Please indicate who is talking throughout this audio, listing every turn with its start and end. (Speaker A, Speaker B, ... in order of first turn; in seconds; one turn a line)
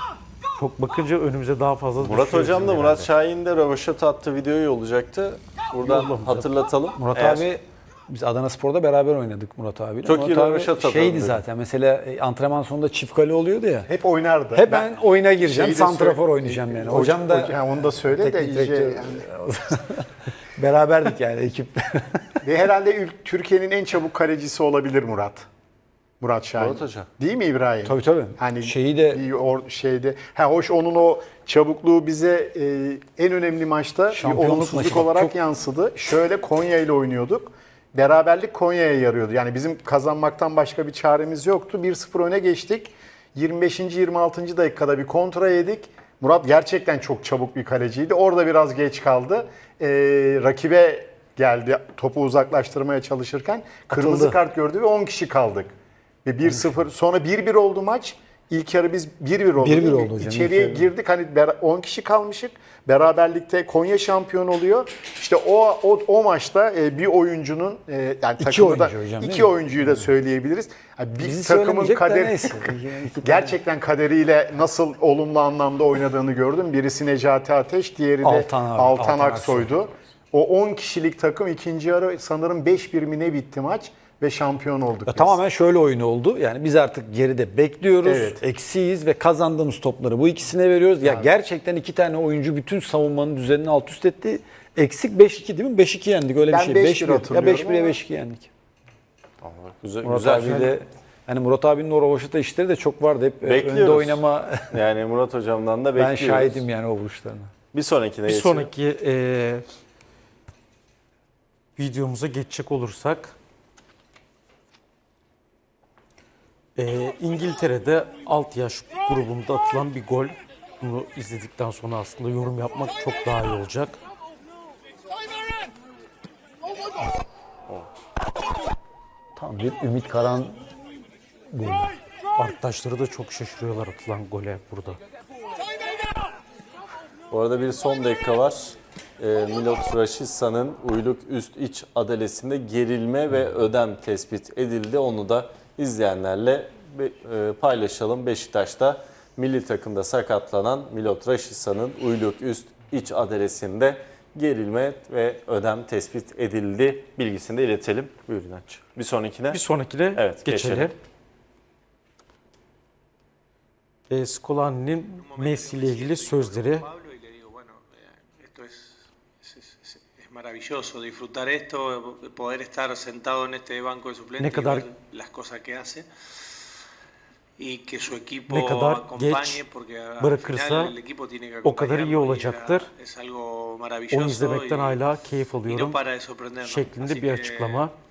Speaker A: 0.6-3.1
Speaker B: 2.0-7.5
Speaker A: 5.8-6.4
Speaker C: 7.0-13.9
Speaker B: 10.0-11.4
Speaker D: 13.9-14.9
Speaker C: 14.5-22.4
Speaker D: 15.4-19.2
Speaker D: 22.4-25.5
Speaker D: 26.2-85.4
Speaker B: 26.6-27.1
Speaker C: 27.9-29.2
Speaker C: 34.1-35.4
Speaker C: 53.9-54.4
Speaker C: 59.6-60.9
Speaker C: 68.4-70.1
Speaker C: 71.2-73.5
Speaker C: 78.2-79.7
Speaker C: 85.1-98.5
Speaker D: 88.0-88.4
Speaker D: 96.5-98.0
Speaker B: 99.4-100.7
Speaker C: 100.0-104.8
Speaker B: 103.4-106.7
Speaker C: 106.0-107.5
Speaker B: 107.7-108.7
Speaker A: 108.3-109.7
Speaker A: 111.8-113.3
Speaker A: 116.8-124.0
Speaker C: 129.4-130.6
Speaker C: 131.5-131.9
Speaker A: 132.4-135.0
Speaker B: 137.3-159.6
Speaker A: 159.5-160.9
Speaker B: 160.2-160.9
Speaker A: 164.1-166.9
Speaker E: 165.2-176.1
Speaker A: 174.4-174.9
Speaker E: 177.6-185.0
Speaker A: 178.5-179.6
Speaker A: 180.2-181.0
Speaker A: 181.6-182.9
Speaker A: 184.1-186.1
Speaker E: 185.7-187.9
Speaker A: 186.6-187.9